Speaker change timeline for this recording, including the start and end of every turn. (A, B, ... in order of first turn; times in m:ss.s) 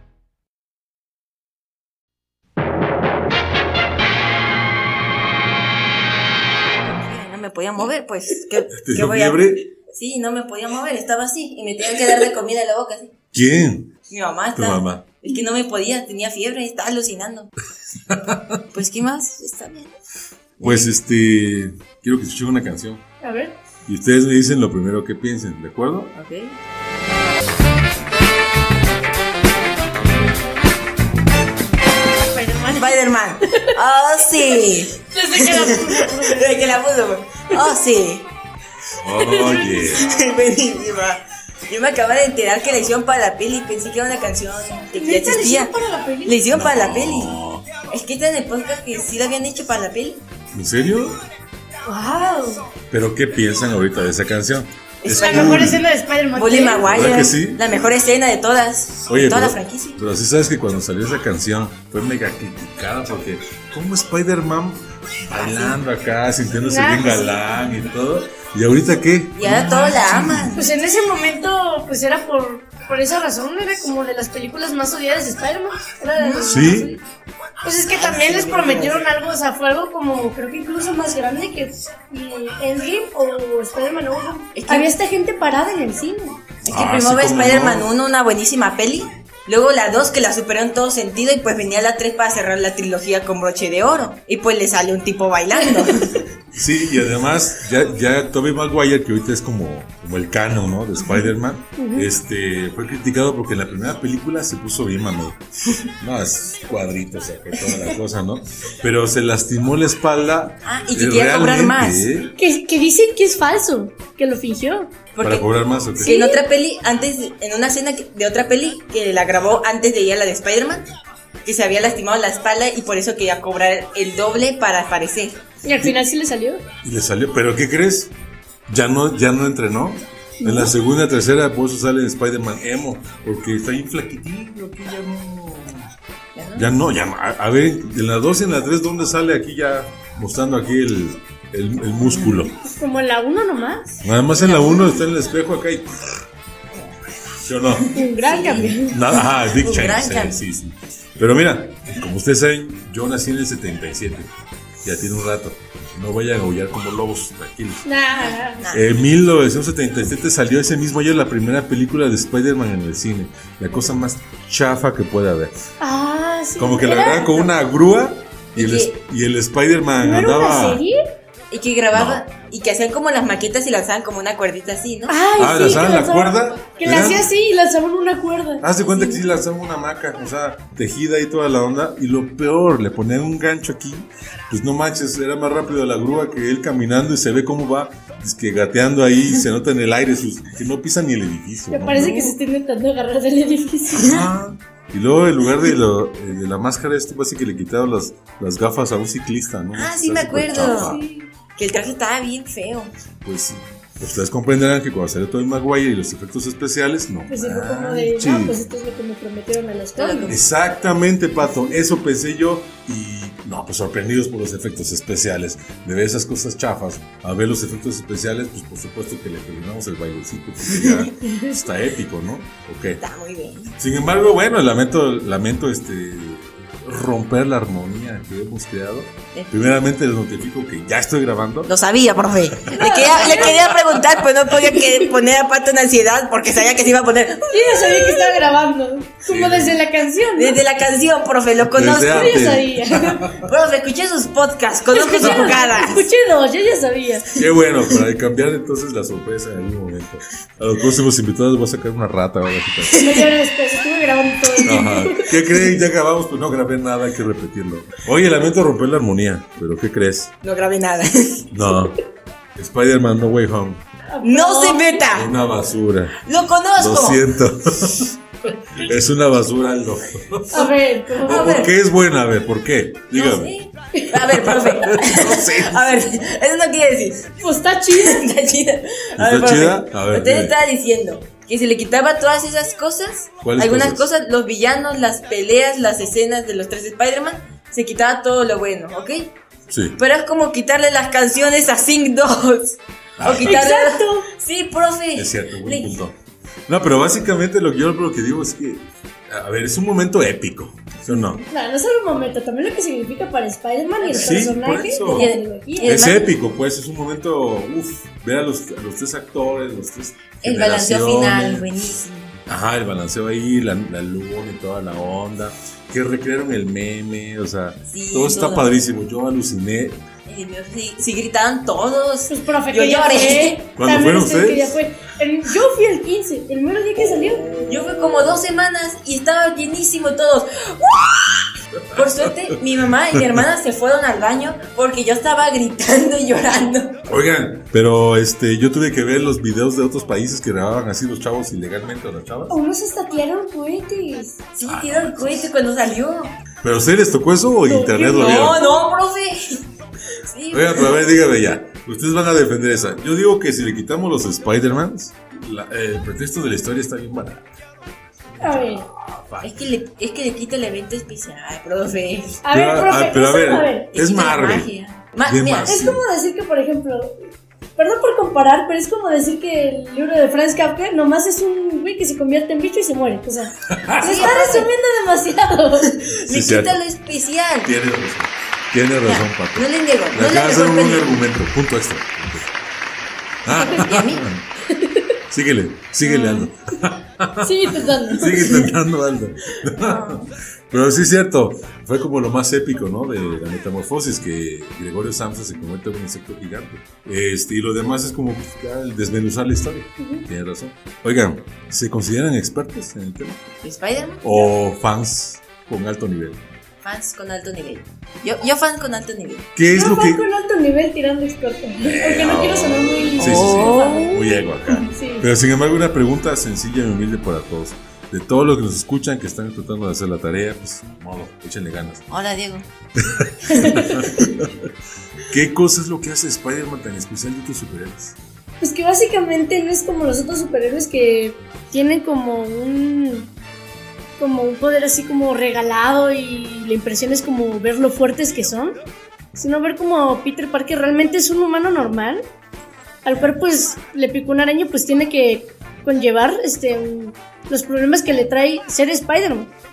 0:06.8-0:13.1 A
0:08.7-0:09.7 B
0:13.3-0:13.9 B
0:14.1-0:17.5 A
0:14.6-0:15.0 B
0:18.0-0:18.6 B
0:18.7-0:19.9 A
0:20.6-0:23.0 B
0:23.2-0:23.6 C
0:23.8-0:26.1 B
0:26.2-0:26.6 A
0:32.2-0:33.7 C
0:32.7-0:38.3 A
0:35.0-0:36.7 C
0:39.0-0:40.2 B
0:39.1-0:40.0 C
0:39.9-0:45.7 A
0:44.9-0:46.4 C
0:46.2-0:50.2 A
0:46.5-0:47.7 B
0:50.5-0:51.2 B
0:51.8-0:52.7 C
0:52.9-0:55.8 B
0:55.0-0:55.8 A
0:55.1-0:57.1 C
0:56.3-1:00.0 A
0:56.8-0:57.6 B
0:59.1-1:10.6 B
1:05.3-1:05.8 A
1:06.6-1:07.4 C
1:09.4-1:10.7 A
1:10.5-1:17.0 C
1:16.2-1:16.8 A
1:16.4-1:16.9 B
1:17.6-1:26.4 C
1:17.9-1:19.1 A
1:24.5-1:24.9 A
1:26.6-1:36.3 A
1:26.7-1:27.9 B
1:36.5-1:52.3 B
1:41.8-1:42.1 C
1:50.6-1:52.1 A
1:52.4-1:54.9 C
1:55.1-1:55.5 A
1:55.2-1:56.2 B
1:56.0-1:56.4 C
1:56.0-2:00.9 A
2:01.4-2:05.4 A
2:05.6-2:06.6 C
2:06.8-2:08.1 B
2:08.7-2:15.9 B
2:10.4-2:10.7 C
2:16.3-2:16.7 A
2:16.5-2:22.5 B
2:22.0-2:22.5 A
2:22.6-2:24.0 C
2:24.0-2:26.1 B
2:24.3-2:25.0 A
2:27.4-2:28.0 B
2:27.8-2:30.4 A
2:27.9-2:29.0 C
2:28.7-2:34.3 B
2:34.8-2:37.8 B
2:37.8-2:38.7 C
2:38.2-2:38.8 A
2:38.7-2:45.5 B
2:45.8-2:47.5 C
2:46.6-2:50.8 B
2:48.5-2:49.0 A
2:50.0-2:51.0 C
2:51.5-2:55.2 A
2:51.9-2:52.2 B
2:55.1-2:59.2 C
2:55.4-2:57.3 B
2:58.6-3:12.4 B
3:11.7-3:14.2 C
3:13.9-3:21.0 B
3:19.7-3:21.0 A
3:20.6-3:21.3 C
3:21.6-3:22.9 A
3:23.2-3:28.6 B
3:27.3-3:30.4 C
3:30.0-3:30.4 A
3:30.3-3:43.0 B
3:40.7-3:41.1 A
3:43.0-3:43.7 A
3:43.8-3:51.7 B
3:49.3-3:49.8 A
3:51.7-3:58.4 A
3:52.7-3:53.6 C
3:54.8-3:55.0 C
3:57.4-4:00.6 C
3:59.3-3:59.8 B
4:00.4-4:02.4 A
4:01.6-4:03.5 B
4:02.1-4:03.3 C
4:03.3-4:06.1 A
4:04.9-4:07.3 C
4:05.2-4:05.5 B
4:07.4-4:13.1 B
4:12.9-4:13.2 A
4:12.9-4:15.6 C
4:14.6-4:20.3 B
4:20.4-4:21.5 A
4:21.5-4:22.0 B
4:22.6-4:23.8 B
4:24.1-4:25.0 C
4:24.2-4:25.3 A
4:25.1-4:26.2 B
4:26.2-4:27.2 A
4:26.8-4:28.2 B
4:28.7-4:33.5 B
4:30.5-4:31.5 C
4:31.2-4:31.7 A
4:33.1-4:37.3 A
4:34.3-4:36.0 B
4:37.4-4:38.2 C
4:37.9-4:49.3 A
4:39.2-4:40.6 B
4:43.4-4:44.0 B
4:49.7-4:50.0 B
4:50.0-4:55.9 A
4:53.2-4:53.6 B
4:53.4-4:54.3 C
4:55.1-4:56.2 B
4:56.7-5:01.4 B
5:01.0-5:01.4 A
5:01.5-5:06.0 C
5:04.0-5:05.3 B
5:05.1-5:06.3 A
5:05.8-5:11.7 B
5:10.4-5:12.4 A
5:12.4-5:20.0 B
5:17.9-5:18.8 A
5:20.3-5:23.7 A
5:22.3-5:27.8 C
5:23.8-5:24.8 B
5:27.4-5:37.0 A
5:31.9-5:32.3 B
5:37.0-5:42.6 B
5:42.5-5:44.4 C
5:44.6-5:46.3 A
5:44.6-5:45.5 B
5:46.6-5:48.6 B
5:47.7-5:48.8 C
5:48.1-5:49.6 A
5:50.2-5:51.1 A
5:50.5-5:57.5 B
5:58.4-5:59.6 B
5:58.4-5:58.9 C
5:59.4-6:02.4 A
6:02.4-6:03.9 C
6:02.4-6:04.7 B
6:03.9-6:05.8 A
6:05.2-6:06.0 B
6:05.7-6:07.2 C
6:07.8-6:16.0 C
6:13.7-6:14.3 B
6:14.0-6:14.7 A
6:15.8-6:17.7 A
6:16.3-6:16.8 B
6:17.6-6:22.5 B
6:19.0-6:21.2 A
6:23.4-6:24.4 B
6:23.5-6:24.3 A
6:24.7-6:25.2 C
6:25.3-6:43.4 B
6:26.0-6:26.4 C
6:26.1-6:26.4 A
6:27.4-6:28.7 C
6:29.8-6:30.3 A
6:40.0-6:40.3 C
6:43.6-6:44.5 A
6:44.2-6:46.4 B
6:46.8-6:49.5 A
6:49.5-6:50.2 B
6:49.7-6:54.2 C
6:51.8-7:02.0 B
6:53.2-6:54.8 A
6:54.8-6:55.3 C
7:02.1-7:02.7 A
7:03.0-7:04.7 B
7:03.5-7:04.2 C
7:05.3-7:08.2 B
7:08.6-7:13.3 C
7:14.2-7:18.8 C
7:19.3-7:22.2 C
7:23.0-7:29.5 C